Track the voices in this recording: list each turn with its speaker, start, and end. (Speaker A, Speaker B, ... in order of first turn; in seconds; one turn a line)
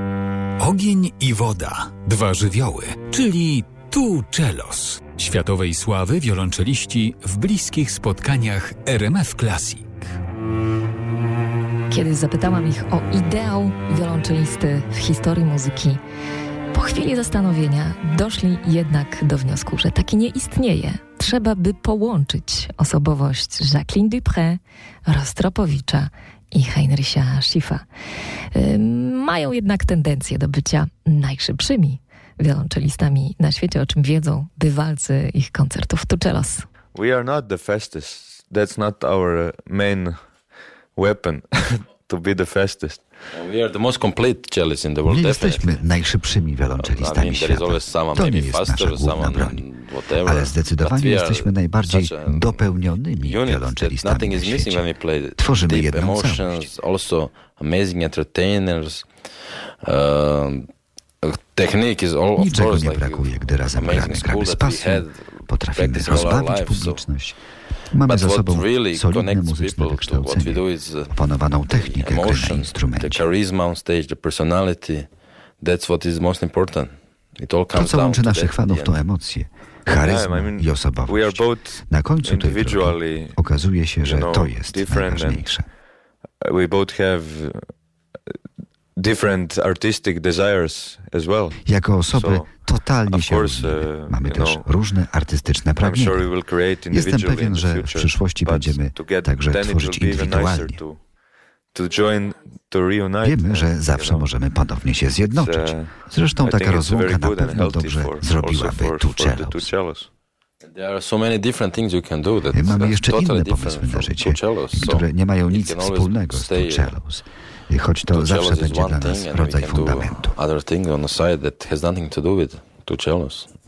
Speaker A: 0.6-10.1
Speaker B: 11.9-16.0
Speaker B: 16.7-27.8
Speaker B: 28.5-36.7
Speaker C: 36.9-40.2
Speaker C: 41.0-43.0
Speaker D: 43.3-45.8
Speaker E: 45.0-49.6
Speaker D: 46.8-52.6
Speaker E: 50.2-56.7
Speaker D: 53.2-59.1
Speaker D: 59.8-60.7
Speaker D: 61.2-67.0
Speaker E: 62.4-67.4
Speaker E: 67.9-73.3
Speaker D: 68.1-75.1
Speaker D: 75.6-79.0
Speaker E: 77.7-85.7
Speaker C: 80.0-83.3
Speaker C: 84.0-85.5
Speaker C: 86.4-87.7
Speaker C: 89.0-91.6
Speaker E: 91.6-96.3
Speaker C: 92.1-92.5
Speaker C: 93.1-94.7
Speaker C: 95.8-101.0
Speaker E: 96.9-100.8
Speaker C: 101.7-104.3
Speaker E: 103.2-109.7
Speaker C: 105.3-110.1
Speaker D: 110.7-117.0
Speaker E: 112.5-120.3
Speaker D: 118.1-123.5